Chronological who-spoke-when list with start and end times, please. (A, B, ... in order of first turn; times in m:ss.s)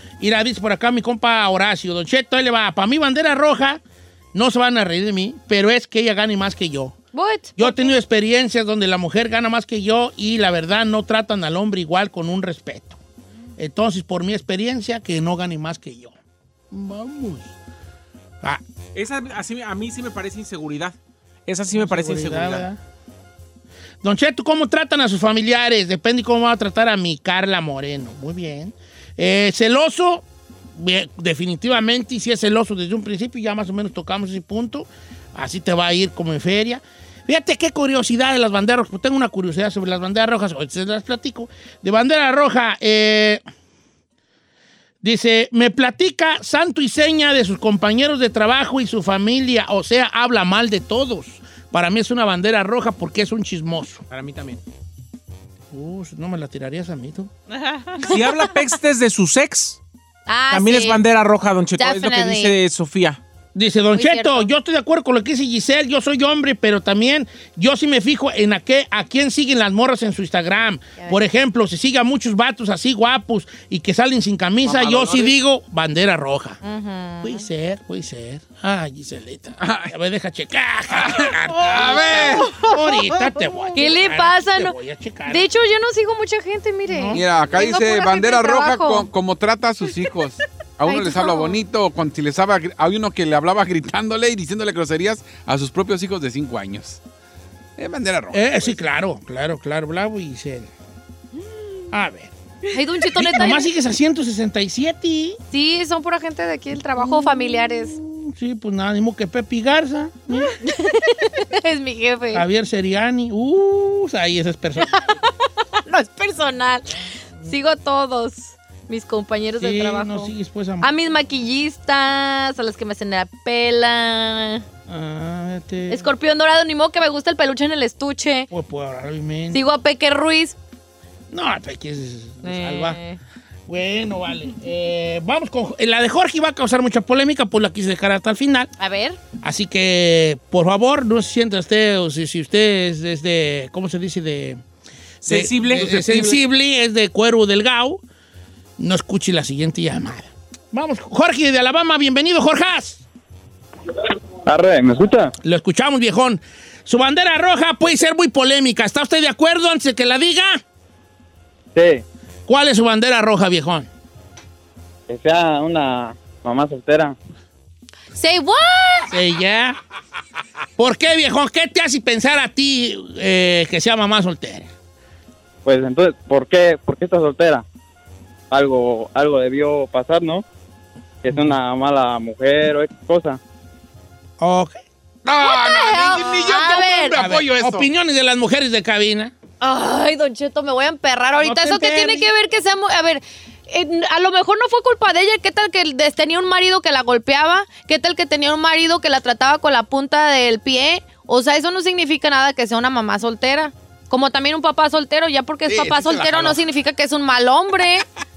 0:00.2-0:03.8 A
0:04.3-0:07.0 A
0:07.1-0:07.9 B
0:07.6-0:13.0 A
0:13.6-0:16.2 A
0:16.7-0:17.5 A
0:19.0-0:21.0 C
0:21.5-0:22.7 C
0:21.7-0:22.8 A
0:24.0-0:43.4 A
0:45.0-0:54.1 A
0:54.1-0:54.6 C
0:55.7-0:57.3 A
0:57.8-0:59.8 C
0:58.0-0:58.5 B
1:00.3-1:01.0 B
1:00.5-1:03.2 C
1:01.8-1:02.6 B
1:03.5-1:16.6 A
1:04.0-1:04.5 B
1:14.8-1:15.3 C
1:16.6-1:17.5 B
1:17.2-1:25.4 A
1:19.6-1:19.9 D
1:20.9-1:22.6 D
1:23.7-1:24.8 B
1:25.3-1:29.1 B
1:26.9-1:27.3 A
1:27.1-1:37.0 D
1:30.9-1:31.6 B
1:37.8-1:38.8 D
1:38.3-1:40.7 A
1:41.9-1:42.3 A
1:42.7-1:43.7 B
1:43.1-1:45.4 A
1:45.5-1:48.0 B
1:47.0-1:50.6 A
1:50.6-1:52.4 B
1:52.3-1:55.2 A
1:54.8-1:55.2 B
1:55.8-2:04.6 B
1:59.6-2:00.9 A
2:04.9-2:06.1 A
2:05.9-2:08.5 B
2:08.5-2:09.6 A
2:09.5-2:10.6 B
2:11.3-2:13.0 A
2:12.4-2:13.2 B
2:13.7-2:18.7 A
2:18.8-2:19.2 B
2:19.4-2:24.6 A
2:25.2-2:26.4 C
2:25.3-2:28.0 A
2:28.8-2:33.0 A
2:34.4-2:35.3 E
2:35.4-2:40.6 A
2:41.8-2:42.0 E
2:42.5-2:43.9 A
2:45.1-2:47.2 E
2:48.1-2:49.1 B
2:49.1-2:49.8 A
2:50.8-2:54.7 A
2:55.6-2:57.6 E
2:58.5-3:00.4 E
3:01.2-3:03.4 E
3:01.3-3:01.6 A
3:04.4-3:04.8 A
3:05.2-3:07.9 D
3:05.4-3:07.2 B
3:07.2-3:09.3 A
3:09.6-3:28.0 B
3:11.4-3:12.3 A
3:25.7-3:26.6 D